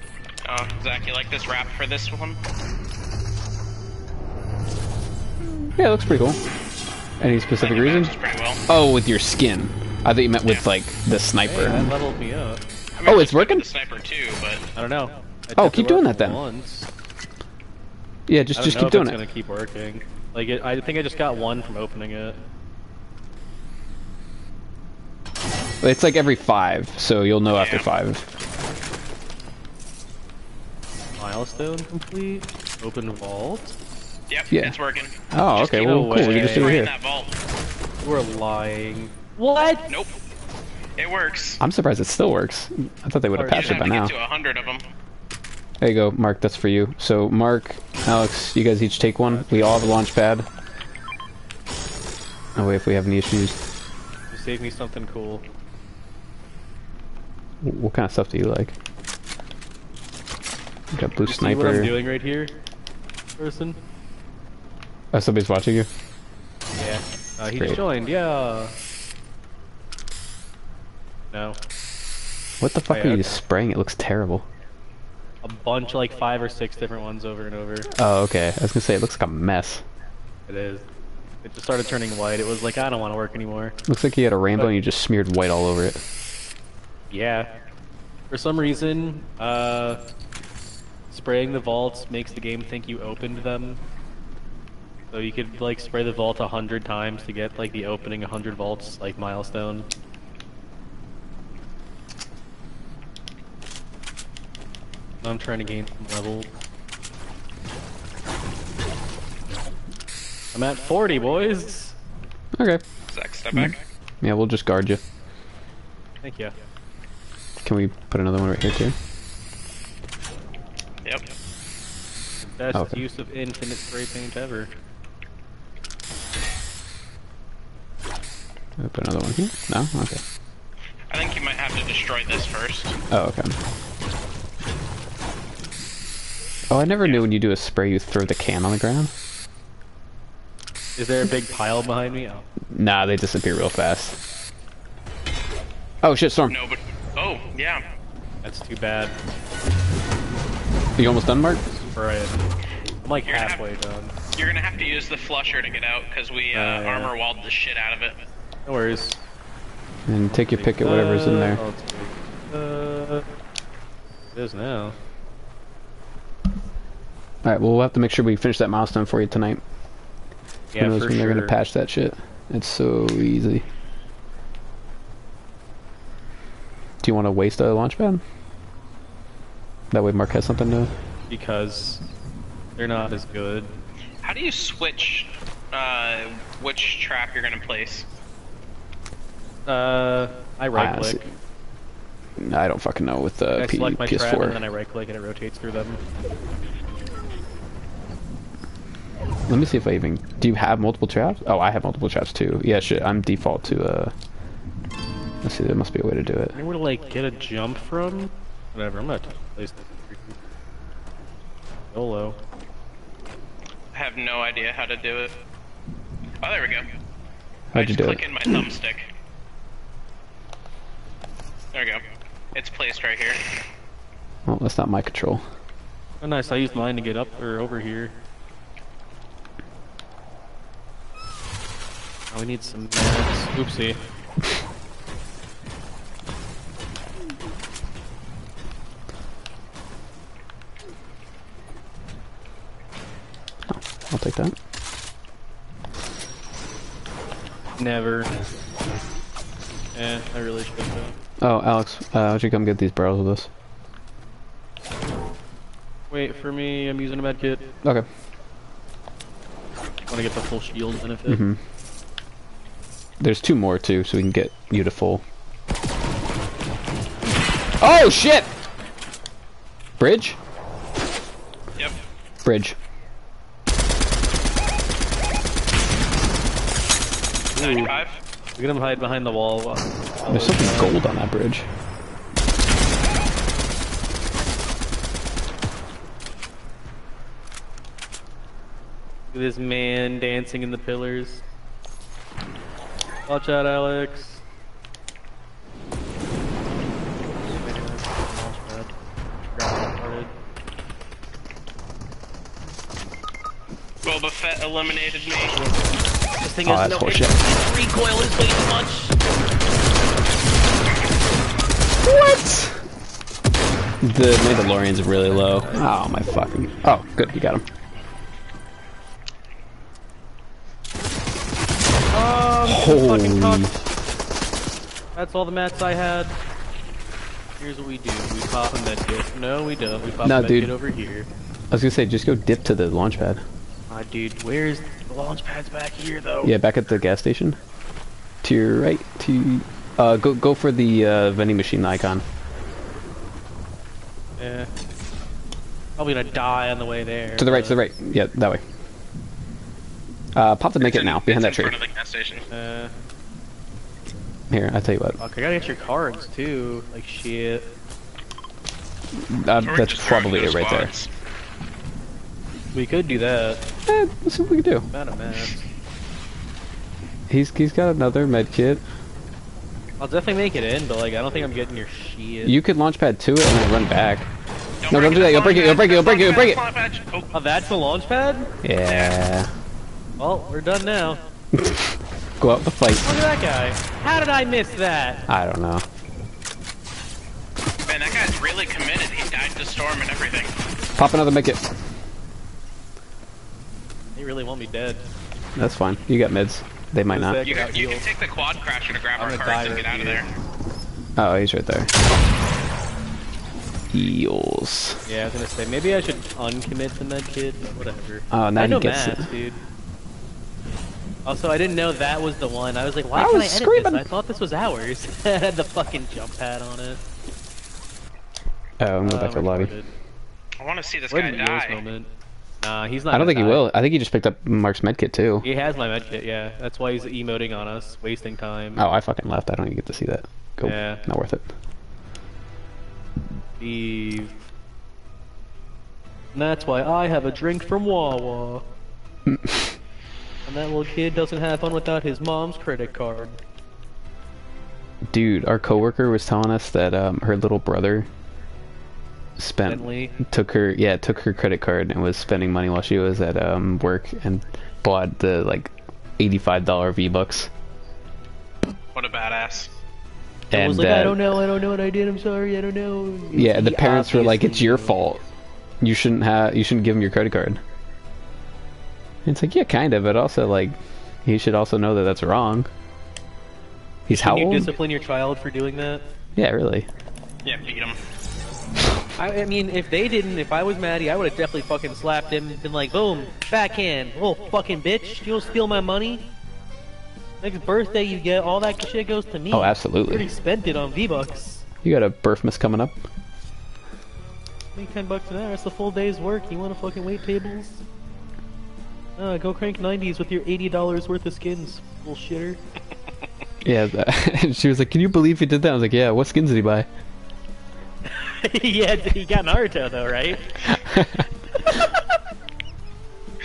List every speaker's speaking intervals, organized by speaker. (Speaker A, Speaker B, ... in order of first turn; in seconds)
Speaker A: 0.4-2.4, 7.6-8.6, 13.0-14.6, 27.5-27.9, 34.3-37.4, 39.9-40.1, 41.0-41.6, 43.5-44.8, 113.1-113.8, 131.1-132.9, 146.5-147.8, 153.3-153.6, 154.3-158.2, 184.2-188.1, 213.9-215.3, 216.4-216.9, 217.7-219.1, 221.7-222.0, 222.5-223.4, 277.6-278.2, 304.0-305.5, 350.8-352.4, 359.6-361.1, 374.8-377.3, 378.9-379.1, 387.8-390.5, 397.4-400.3, 420.6-421.8, 458.9-459.7, 477.4-478.0
Speaker B: 5.4-6.4, 7.2-8.1, 8.7-11.9, 13.0-13.7, 15.6-16.4, 18.3-19.2, 25.8-28.3, 35.3-36.9, 41.6-44.1, 45.8-50.5, 52.5-53.6, 57.6-58.7, 60.9-61.9, 65.1-65.9, 67.5-67.8, 72.6-74.4, 77.9-79.8, 83.9-86.0, 112.6-112.8, 113.5-115.0, 117.6-118.9, 122.7-123.0, 128.8-130.2, 133.1-133.5, 136.7-139.1, 142.7-144.2, 146.0-146.5, 151.0-151.6, 160.1-161.6, 167.4-169.6, 170.8-173.6, 177.0-178.2, 179.9-180.9, 190.7-191.2, 192.4-194.6, 199.5-204.1, 205.4-206.6, 217.7-218.2, 224.4-225.4, 243.7-244.5, 251.4-253.5, 261.3-261.6, 263.2-265.2, 267.8-268.5, 270.0-270.4, 272.4-272.8, 280.3-281.7, 306.6-307.4, 312.0-312.8, 314.0-317.6, 322.7-323.7, 330.2-330.7, 331.7-333.4, 336.4-337.6, 338.4-342.2, 347.4-348.6, 350.3-351.8, 354.5-355.2, 359.1-360.9, 363.9-364.9, 367.3-368.8, 372.4-374.3, 374.9-376.6, 378.6-379.5, 381.5-383.1, 385.3-385.9, 391.0-391.6, 395.6-397.4, 401.2-401.9, 403.9-405.0, 408.3-409.3, 413.1-414.0, 418.8-419.7, 423.1-425.5, 428.8-431.5, 439.3-439.7, 445.1-448.1, 449.4-457.5, 460.5-461.3, 463.3-465.2, 465.8-467.6, 469.2-472.7, 474.1-474.7, 476.4-476.9, 489.5-490.3, 491.8-493.0, 503.6-506.9, 510.6-511.3
Speaker C: 11.4-12.6, 14.8-16.9, 18.5-22.4, 31.2-33.7, 35.8-36.8, 38.0-39.8, 43.3-43.8, 49.2-49.9, 54.3-55.4, 61.2-62.6, 63.4-63.8, 66.8-68.8, 71.3-71.6, 72.9-73.4, 75.4-77.9, 80.5-80.8, 81.4-83.8, 87.1-87.5, 88.3-90.0, 91.1-93.8, 95.1-99.9, 105.2-106.5, 110.5-112.0, 116.2-116.5, 122.4-124.7, 141.0-142.4, 148.4-149.2, 151.7-152.5, 153.0-154.1, 156.5-157.1, 158.7-159.2, 160.3-163.3, 164.3-164.9, 170.7-171.6, 181.3-182.0, 182.8-183.7, 189.7-191.3, 193.5-196.0, 206.5-210.3, 211.9-212.4, 226.2-228.1, 232.3-234.0, 247.8-248.3, 249.9-251.2, 256.1-257.7, 260.1-261.4, 277.5-278.0, 278.6-281.0, 289.3-291.4, 293.3-294.4, 297.5-298.9, 299.5-300.3, 305.6-305.8, 306.4-309.1, 315.2-315.9, 322.1-323.7, 325.1-326.4, 327.6-331.3, 333.9-336.5, 344.4-344.7, 346.0-347.8, 352.5-352.9, 355.2-357.7, 362.7-363.7, 364.9-365.7, 370.0-372.5, 377.3-378.5, 380.2-381.2, 383.0-385.2, 394.1-395.1, 397.1-398.0, 399.2-400.2, 405.1-409.6, 411.2-417.0, 419.0-419.9, 421.1-422.1, 422.6-423.6, 425.4-428.8, 430.6-431.0, 433.6-434.4, 436.3-438.7, 440.4-443.4, 449.6-450.2, 460.5-464.9, 474.1-476.1, 479.2-486.3, 487.4-491.6, 494.7-497.8, 499.2-502.6, 508.1-510.7, 511.6-512.0